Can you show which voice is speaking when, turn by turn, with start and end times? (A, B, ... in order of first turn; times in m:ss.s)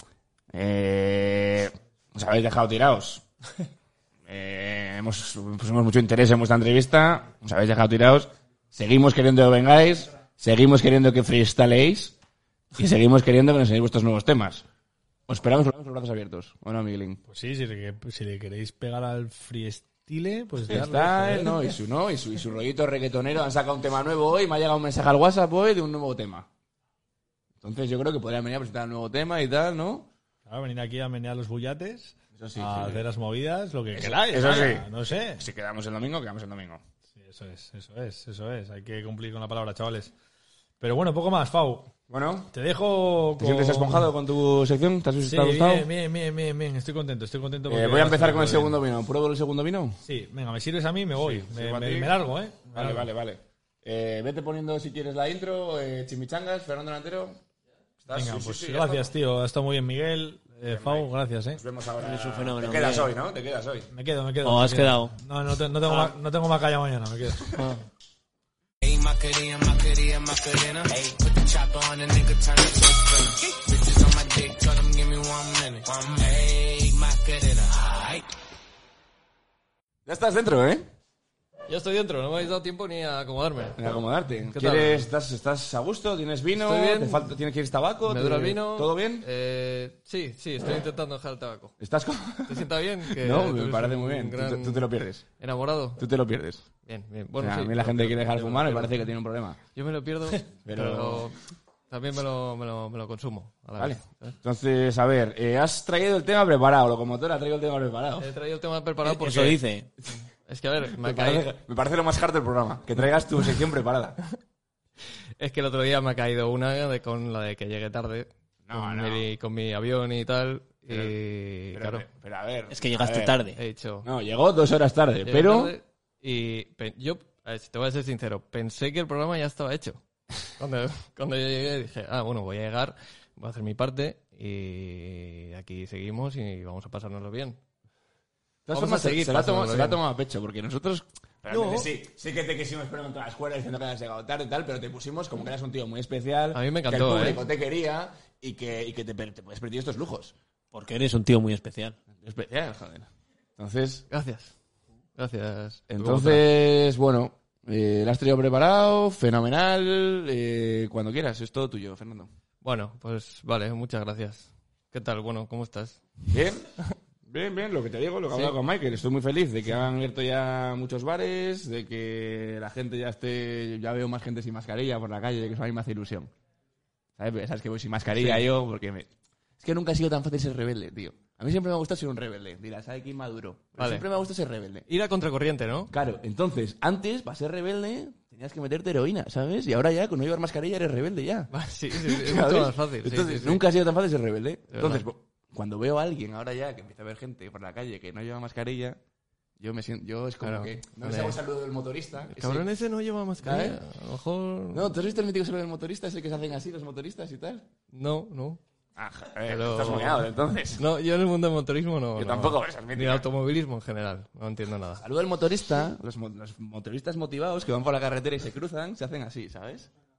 0:00.5-0:03.2 A
0:04.3-0:12.1 A
0:12.7-0:14.6 A
0:15.3-0:17.2 A
0:17.3-0:21.7 B
0:20.6-0:26.5 A
0:27.6-0:30.1 A
0:30.4-0:35.4 B
0:32.3-0:33.0 A
0:33.9-0:36.8 A
0:37.2-0:40.1 B
0:40.8-0:41.9 B
0:42.1-0:42.5 A
0:42.5-0:44.1 B
0:43.4-0:45.9 A
0:45.2-0:48.8 B
0:47.7-0:50.0 A
0:50.0-0:53.1 B
0:51.2-0:52.1 A
0:52.7-0:57.4 A
0:58.0-0:59.1 A
0:58.1-1:01.6 B
1:00.6-1:03.9 A
1:02.0-1:03.1 C
1:03.9-1:07.6 B
1:04.4-1:05.1 C
1:05.8-1:06.1 C
1:08.8-1:18.0 D
1:20.0-1:20.9 A
1:21.7-1:23.9 E
1:23.8-1:29.3 A
1:24.5-1:25.1 E
1:26.5-1:27.3 E
1:28.1-1:31.8 E
1:31.8-1:35.2 A
1:32.4-1:36.0 E
1:36.0-1:36.6 A
1:36.8-1:39.0 E
1:37.4-1:39.6 A
1:39.7-1:41.4 E
1:40.6-1:41.3 A
1:41.9-1:44.4 E
1:43.8-1:48.3 A
1:48.2-1:49.6 E
1:49.0-1:49.9 C
1:50.4-1:51.5 E
1:50.9-1:54.2 A
1:55.4-2:02.0 E
1:58.6-1:59.2 A
2:00.9-2:01.1 A
2:01.7-2:03.4 A
2:02.7-2:03.6 C
2:03.6-2:04.1 E
2:04.0-2:05.7 A
2:05.2-2:17.6 E
2:18.6-2:30.3 A
2:18.7-2:20.0 E
2:21.5-2:21.8 E
2:26.5-2:27.4 E
2:30.7-2:32.0 C
2:32.1-2:34.0 A
2:34.1-2:34.5 E
2:35.2-2:36.4 E
2:35.9-2:42.3 A
2:42.6-2:46.2 E
2:46.3-2:46.7 A
2:47.2-2:56.3 A
2:57.2-2:59.1 A
2:58.1-2:58.5 E
2:59.6-3:04.8 A
3:03.8-3:04.0 E
3:04.9-3:05.9 E
3:05.9-3:19.0 A
3:11.5-3:13.6 E
3:14.7-3:15.0 E
3:19.6-3:22.7 A
3:20.4-3:21.4 E
3:22.3-3:24.9 E
3:23.4-3:23.8 A
3:24.7-3:27.7 A
3:27.9-3:28.6 E
3:29.0-3:30.8 A
3:29.5-3:35.0 E
3:32.2-3:33.2 A
3:35.0-3:39.9 A